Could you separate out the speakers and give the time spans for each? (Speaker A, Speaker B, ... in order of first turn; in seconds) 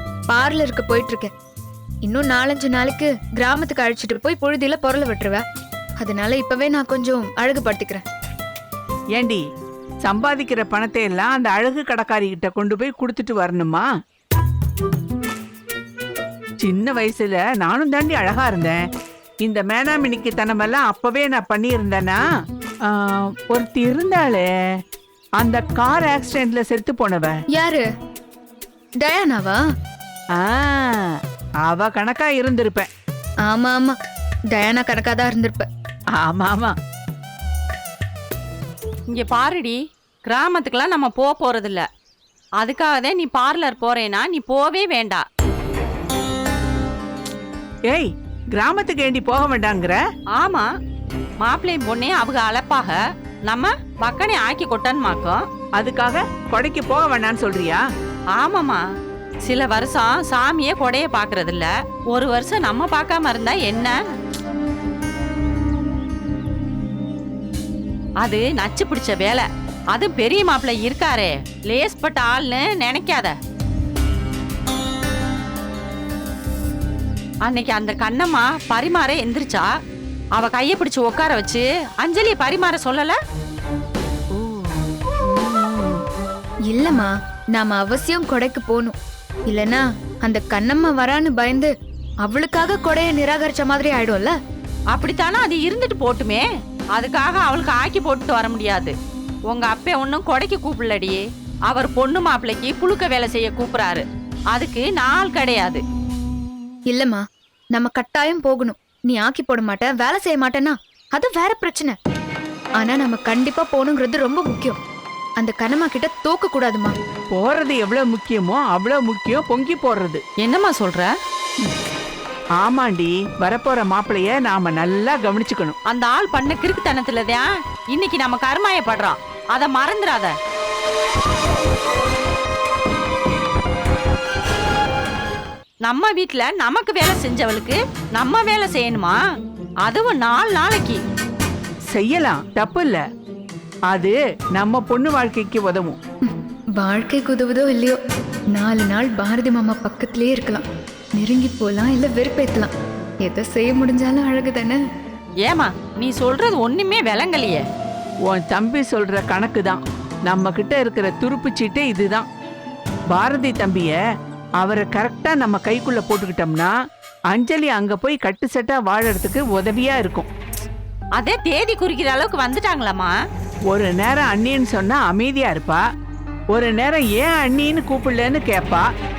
Speaker A: 0.3-1.3, 2.0-5.4, 6.0-8.0, 27.5-27.8, 29.0-29.6, 33.5-34.0, 34.5-35.7, 86.7-89.0, 89.5-91.7, 92.2-94.3, 106.9-107.2, 107.7-111.9, 112.8-114.8, 115.4-117.0, 146.2-148.0, 148.5-150.6, 151.2-152.7, 153.2-154.8
Speaker B: 9.2-9.4, 10.0-13.9, 16.6-18.8, 19.4-22.2, 22.9-24.5, 25.4-27.4, 30.4-31.0, 31.7-32.9, 36.2-36.8, 47.9-50.0, 55.8-57.8, 84.4-86.0, 117.3-120.2, 122.6-125.8, 141.9-143.0, 143.9-146.0, 158.3-162.3, 163.1-164.0, 164.6-166.7, 167.3-170.3, 173.7-175.8, 176.5-178.9
Speaker C: 39.1-41.9, 42.6-45.2, 50.3-50.7, 51.4-55.4, 58.3-58.8, 59.4-63.9, 68.2-73.3, 77.5-79.7, 80.3-83.2, 94.9-96.4, 97.0-98.9, 99.5-105.8, 120.4-121.1, 125.9-130.3, 135.8-139.2, 139.8-141.0, 155.4-157.6, 171.2-173.1